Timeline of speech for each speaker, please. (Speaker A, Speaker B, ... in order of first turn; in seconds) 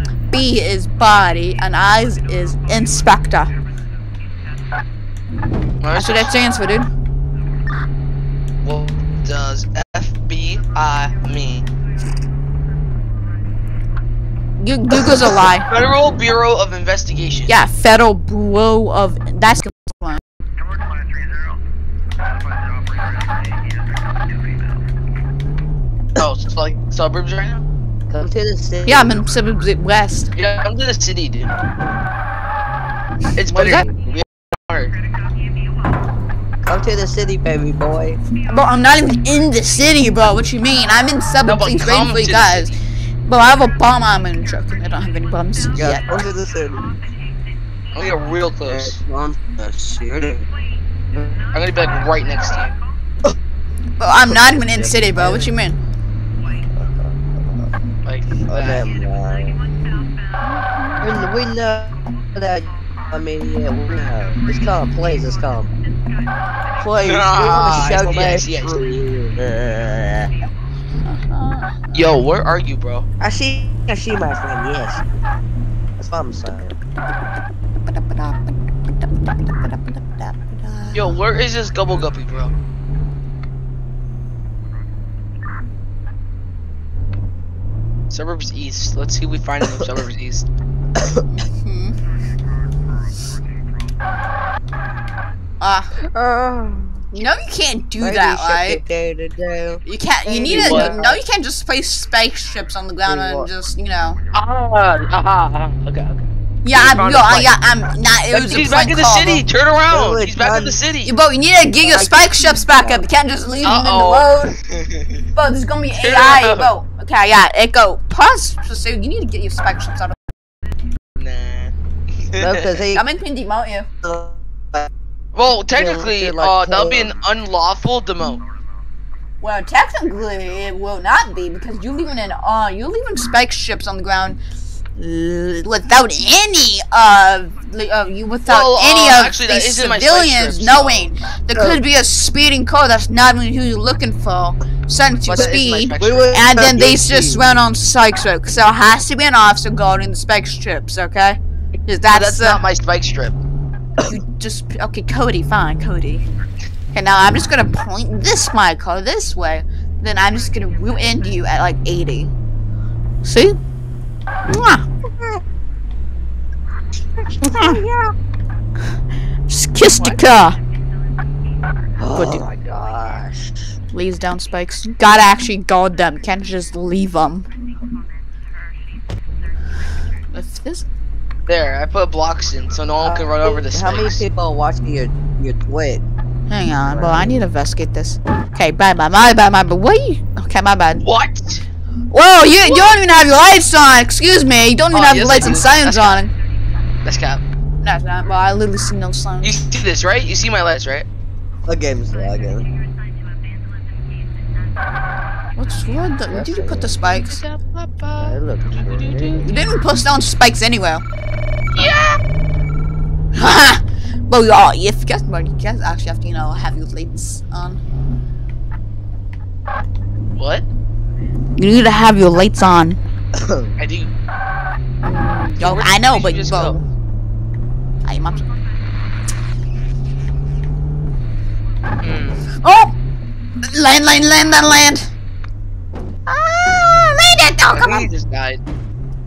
Speaker A: 0.3-3.5, 5.9-6.9, 14.6-15.7, 17.5-20.2, 28.9-30.3, 38.5-42.7, 43.2-46.2, 54.0-55.8, 71.0-72.2, 77.9-81.1, 91.3-91.9, 95.6-95.9, 97.1-98.8, 99.8-104.2, 106.6-109.4, 111.0-114.5, 115.3-120.3, 122.9-123.9, 129.4-134.4, 134.9-152.6, 154.0-156.2, 156.9-162.3, 163.2-163.6, 164.5-164.8, 167.5-167.8, 169.5-170.6, 172.1-172.4, 173.9-177.5, 180.3-180.8, 186.5-191.0, 192.1-196.3, 197.8-199.6, 205.6-207.4, 209.4-211.0, 213.3-217.8, 221.6-223.0, 225.0-226.8, 228.0-228.4, 232.6-232.9, 233.6-235.1, 236.3-238.1
Speaker B: 5.8-6.3, 8.6-11.7, 15.7-17.5, 26.2-27.6, 30.3-31.5, 33.4-34.9, 41.4-42.7, 47.9-49.0, 51.5-52.7, 58.0-58.9, 67.0-68.8, 71.9-73.0, 80.9-82.5, 88.1-90.4, 100.5-100.9, 104.3-106.2, 106.7-107.5, 108.3-111.1, 113.6-115.0, 116.0-116.7, 121.2-122.7, 125.3-128.4, 138.5-141.1, 145.2-146.4, 152.1-153.3, 181.5-184.2, 191.0-191.6, 194.9-196.2, 197.0-197.4, 199.4-201.1, 207.2-209.5, 211.7-212.2, 220.3-220.6, 223.8-224.1, 225.6-226.8, 232.0-232.5, 237.7-238.6
Speaker C: 28.1-29.2, 33.5-34.0, 36.6-38.2, 45.7-46.9, 48.6-50.4, 51.1-51.4, 54.3-55.5, 56.7-57.7, 58.4-59.6, 61.0-65.7, 66.8-70.3, 73.2-75.0, 76.0-76.7, 91.0-91.2, 96.0-97.1, 98.0-101.2, 103.0-103.5, 109.9-110.8, 111.8-113.1, 122.3-123.0, 124.0-124.9, 125.7-127.2, 141.5-141.8, 145.3-147.4, 167.4-168.1, 170.0-170.2, 172.0-173.5, 183.0-186.0, 186.8-187.5, 201.7-202.7, 206.3-207.0, 208.2-209.5, 223.3-223.7